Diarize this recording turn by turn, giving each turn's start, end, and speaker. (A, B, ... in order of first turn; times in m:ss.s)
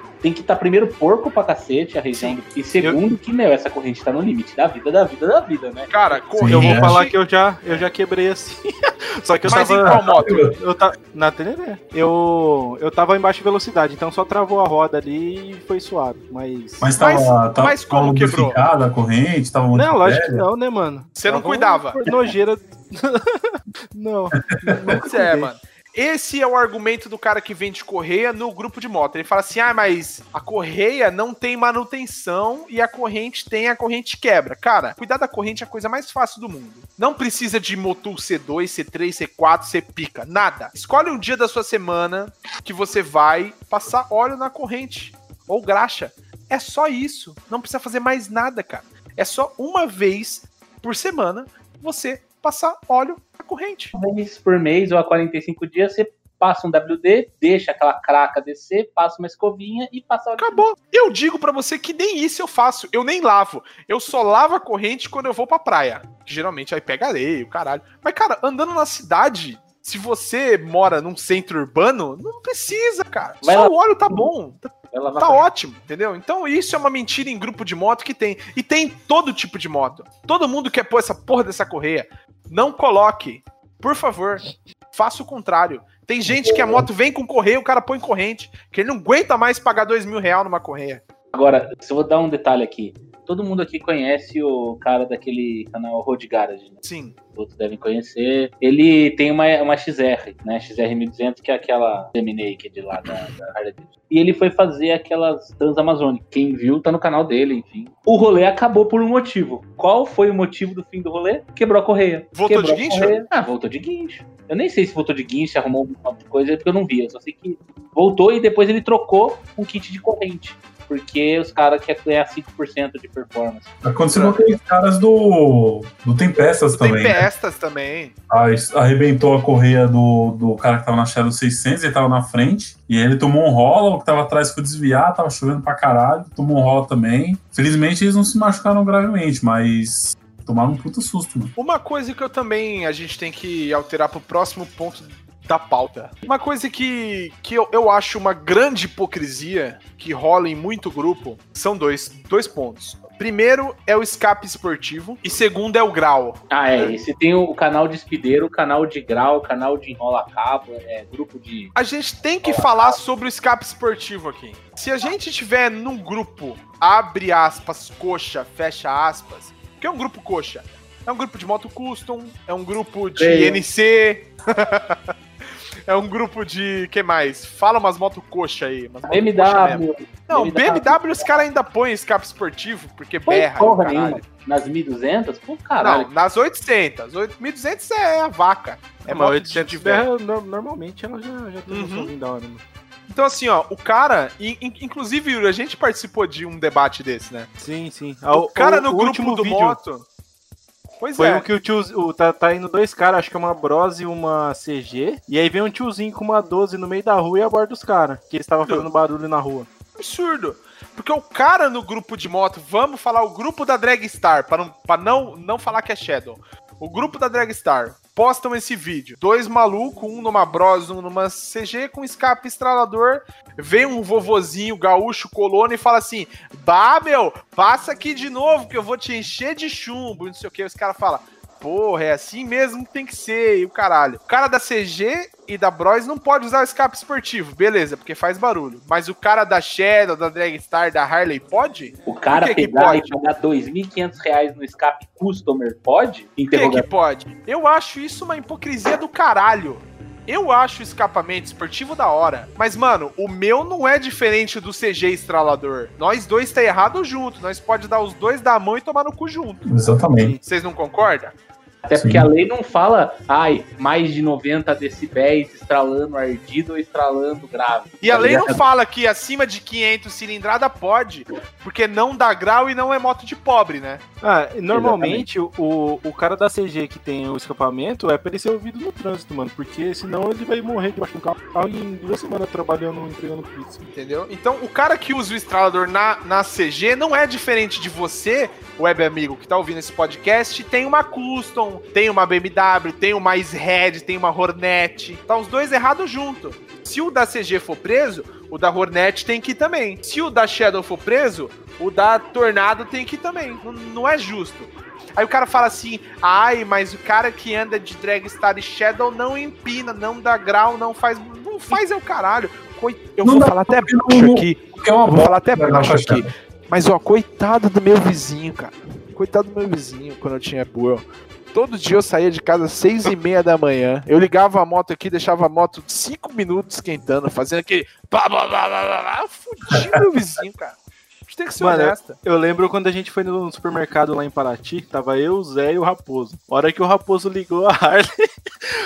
0:00.2-0:05.9 A
0:02.2-0:03.0 B
0:05.9-0:07.1 C
0:06.4-0:07.0 D
0:06.4-0:17.0 B
0:09.5-0:10.4 C
0:09.8-0:10.5 D
0:16.8-0:20.4 D
0:17.0-0:18.6 C
0:19.7-0:25.5 B
0:21.2-0:22.3 C
0:24.5-0:25.0 D
0:25.0-0:53.9 C
0:53.9-1:00.7 A
1:00.4-1:31.0 C
1:13.4-1:14.3 A
1:14.9-1:15.5 A
1:31.3-2:03.7 A
1:36.8-1:37.2 C
1:52.4-1:53.2 C
2:03.8-2:07.2 D
2:06.7-2:08.2 C
2:08.3-2:21.5 D
2:21.6-2:36.9 C
2:36.5-2:41.7 A
2:41.8-2:55.1 C
2:42.4-2:43.0 A
2:53.2-2:53.6 A
2:55.9-3:04.2 C
2:59.1-3:01.4 A
3:03.3-3:06.1 A
3:05.8-3:10.1 C
3:09.1-3:12.6 B
3:11.7-3:12.1 C
3:13.1-3:17.5 C
3:17.6-3:19.8 B
3:18.3-3:20.1 C
3:21.0-3:21.4 C
3:21.2-3:29.7 B
3:30.0-4:03.0 C
4:02.1-4:06.9 A
4:06.5-4:19.6 C
4:19.7-4:20.4 D
4:20.4-4:21.3 C
4:21.9-4:28.6 A
4:22.0-4:22.3 D
4:28.0-4:34.0 C
4:34.2-4:43.9 B
4:34.7-4:35.2 A
4:43.9-5:30.8 C
5:13.2-5:16.3 D
5:31.3-5:32.2 C
5:31.6-5:38.1 B